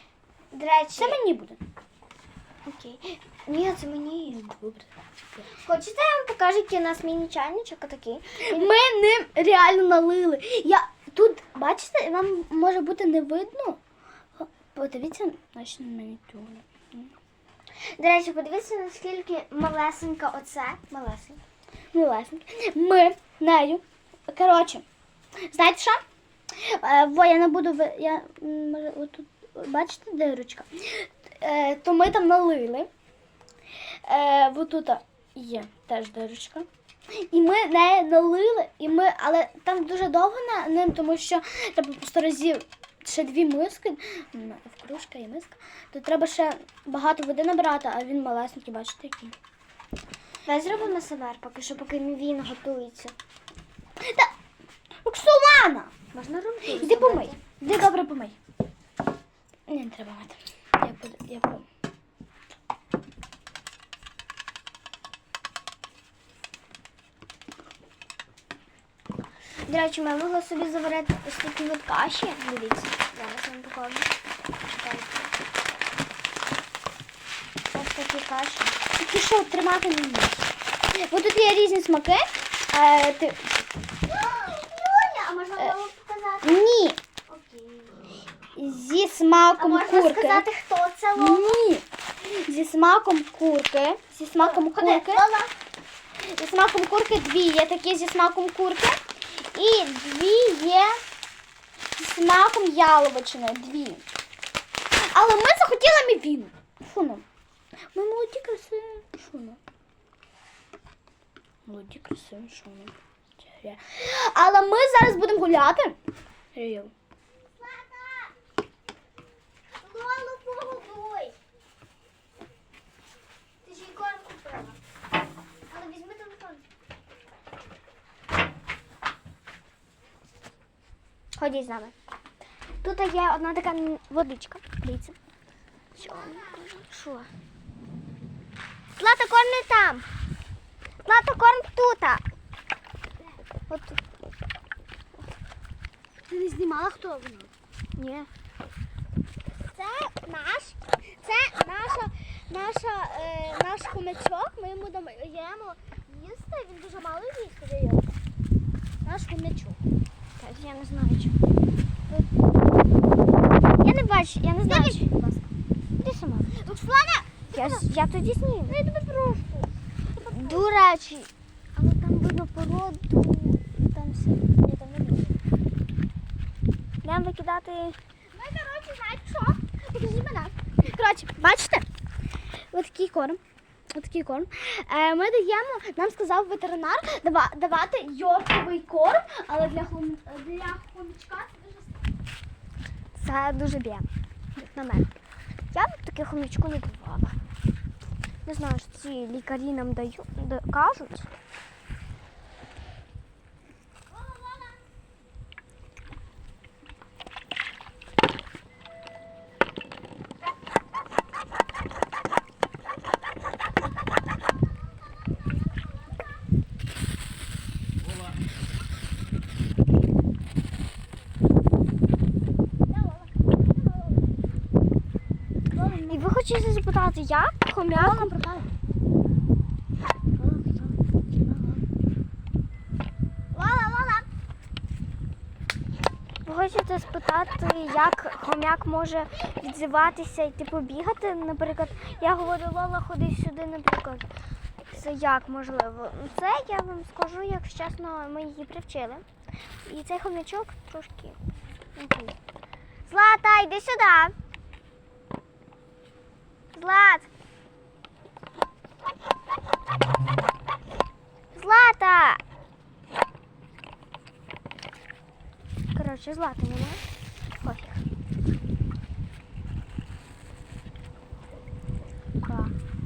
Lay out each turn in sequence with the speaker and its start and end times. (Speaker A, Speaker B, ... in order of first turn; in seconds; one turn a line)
Speaker A: 0.5-1.2
Speaker B: 1.0-1.6
Speaker A: 2.6-4.6
Speaker B: 4.5-4.9
Speaker A: 5.5-8.7
Speaker B: 8.5-13.8
Speaker B: 14.4-17.1
Speaker A: 17.8-21.4
Speaker B: 21.9-24.8
Speaker B: 25.5-26.0
Speaker B: 26.5-32.9
Speaker B: 33.8-49.4
Speaker A: 50.5-53.1
Speaker B: 54.0-54.3
Speaker B: 55.0-55.9
Speaker A: 56.1-57.4
Speaker B: 56.7-58.4
Speaker B: 59.7-61.6
Speaker A: 69.6-75.3
Speaker A: 77.7-78.8
Speaker B: 79.0-83.5
Speaker A: 84.1-86.7
Speaker B: 86.4-87.0
Speaker A: 87.3-88.1
Speaker B: 88.6-90.5
Speaker A: 89.6-91.6
Speaker B: 91.2-95.3
Speaker A: 94.4-95.5
Speaker B: 96.2-101.0
Speaker B: 102.0-104.0
Speaker B: 105.0-107.2
Speaker B: 107.9-109.6
Speaker B: 111.7-112.9
Speaker B: 113.5-116.0
Speaker B: 116.5-116.9
Speaker A: 117.6-118.3
Speaker A: 119.8-121.3
Speaker A: 123.6-124.8
Speaker A: 125.7-126.7
Speaker A: 131.4-131.9
Speaker A: 132.8-135.2
Speaker B: 136.0-136.6
Speaker A: 136.0-137.3
Speaker A: 139.0-140.1
Speaker A: 141.0-142.2
Speaker A: 143.7-144.1
Speaker B: 146.3-147.5
Speaker A: 148.0-148.3
Speaker B: 149.7-158.1
Speaker B: 159.0-159.8
Speaker A: 160.4-161.4
Speaker A: 163.8-165.1
Speaker B: 164.7-165.5
Speaker A: 166.0-166.5
Speaker B: 166.5-167.9
Speaker A: 167.5-168.8
Speaker B: 168.7-170.7
Speaker A: 170.3-174.6
Speaker B: 174.6-175.3
Speaker A: 177.0-178.0
Speaker B: 178.3-181.9
Speaker B: 182.7-183.4
Speaker B: 183.9-192.1
Speaker A: 193.2-195.2
Speaker A: 195.7-197.4
Speaker A: 198.4-201.3
Speaker B: 204.1-204.8
Speaker B: 215.4-216.2
Speaker B: 222.9-224.4
Speaker B: 225.7-226.3
Speaker A: 226.1-228.3
Speaker B: 227.9-228.7
Speaker B: 230.4-230.9
Speaker B: 231.4-231.8
Speaker B: 233.5-234.3
Speaker A: 236.4-244.3
Speaker A: 244.9-249.2
Speaker A: 249.8-251.4
Speaker A: 252.0-252.4
Speaker A: 253.1-254.3
Speaker A: 256.7-257.3
Speaker A: 261.5-262.4
Speaker A: 265.9-267.0
Speaker A: 267.6-268.0
Speaker A: 272.4-272.7